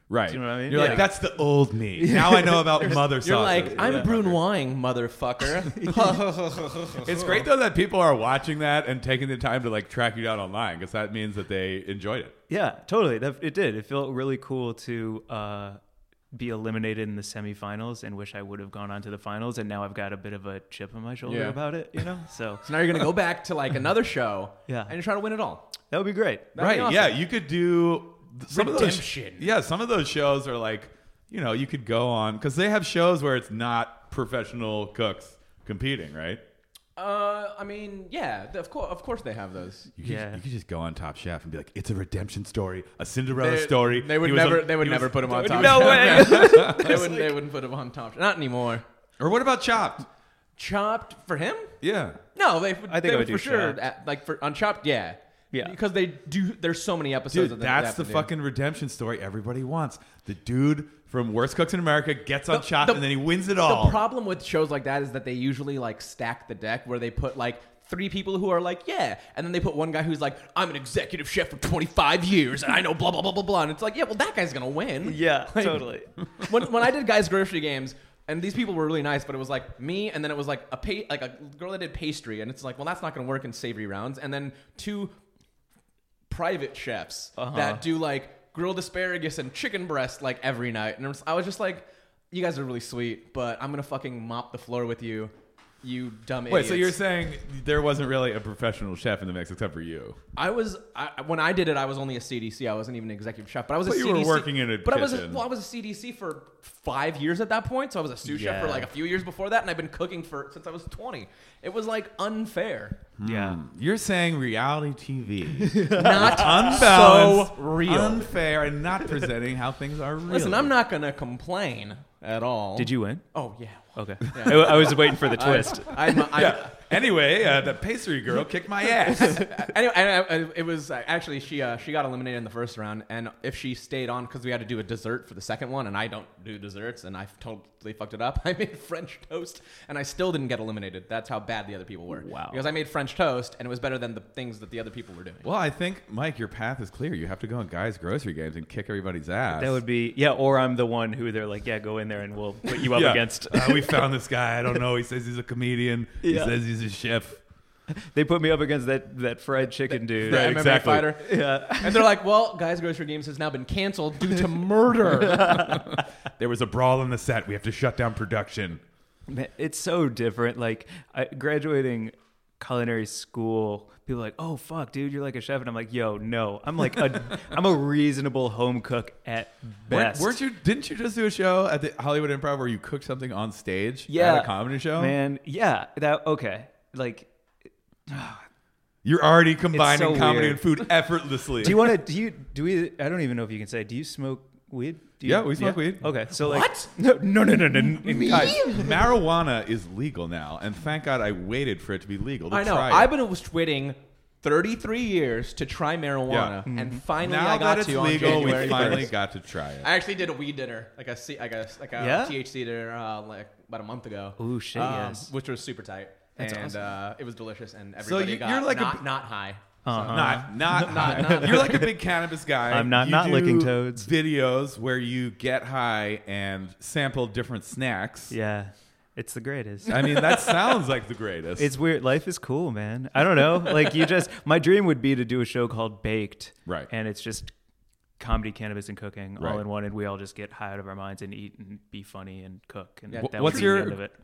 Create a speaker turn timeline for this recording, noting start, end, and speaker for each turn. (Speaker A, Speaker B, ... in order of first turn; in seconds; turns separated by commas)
Speaker A: 0.1-4.4, Speaker B: 0.3-1.2, Speaker C: 0.7-1.1, Speaker B: 2.0-3.1, Speaker C: 2.8-7.4, Speaker B: 3.7-4.1, Speaker B: 5.7-6.3, Speaker A: 7.0-12.4, Speaker B: 12.5-15.8, Speaker B: 16.3-23.1, Speaker C: 21.2-21.6, Speaker C: 22.6-25.7, Speaker B: 24.7-24.9, Speaker B: 25.9-26.5, Speaker C: 26.5-27.2, Speaker A: 26.6-36.4, Speaker C: 28.5-29.5, Speaker C: 37.0-39.9, Speaker A: 40.0-47.0, Speaker B: 40.0-40.4, Speaker C: 43.4-48.9, Speaker B: 45.3-47.4, Speaker A: 49.2-50.1, Speaker C: 50.6-51.8, Speaker A: 51.8-52.2, Speaker C: 52.4-58.3, Speaker B: 52.9-53.8, Speaker A: 57.3-64.0, Speaker C: 62.5-85.1, Speaker B: 75.0-76.1, Speaker C: 86.3-97.0, Speaker B: 87.4-87.8, Speaker A: 96.5-100.2, Speaker C: 100.4-113.0, Speaker A: 103.8-105.4, Speaker B: 108.2-108.9, Speaker A: 113.2-120.7, Speaker B: 113.2-113.6, Speaker B: 115.6-116.9, Speaker C: 115.9-118.3, Speaker C: 120.3-126.8, Speaker B: 122.8-123.2, Speaker B: 124.0-126.3, Speaker A: 126.3-129.5, Speaker C: 129.0-145.5, Speaker B: 142.2-142.6, Speaker A: 145.4-149.8, Speaker B: 149.5-154.1, Speaker A: 152.7-157.4, Speaker B: 156.2-156.6, Speaker B: 157.9-162.1, Speaker C: 159.9-165.8, Speaker A: 160.2-161.2, Speaker B: 165.2-166.0, Speaker A: 165.5-168.8, Speaker B: 169.3-180.4, Speaker A: 179.9-185.2, Speaker B: 184.1-187.3, Speaker B: 188.1-188.4, Speaker A: 189.0-192.0, Speaker B: 189.7-190.9, Speaker B: 191.6-199.0, Speaker A: 195.2-196.1, Speaker C: 196.3-196.9, Speaker C: 198.0-198.8, Speaker A: 198.3-203.1, Speaker C: 202.5-209.2, Speaker A: 206.3-206.6, Speaker B: 206.7-207.0, Speaker A: 207.2-209.9, Speaker B: 208.2-209.1, Speaker C: 209.8-221.9, Speaker B: 212.0-212.4, Speaker B: 214.4-215.3, Speaker B: 216.4-216.9, Speaker A: 218.0-219.1, Speaker B: 219.8-221.8, Speaker A: 220.1-228.3, Speaker B: 222.7-224.1, Speaker B: 228.3-230.5, Speaker A: 229.9-231.7, Speaker B: 231.6-237.5, Speaker B: 238.2-244.2, Speaker A: 239.4-239.6, Speaker C: 243.1-243.9, Speaker A: 243.2-244.0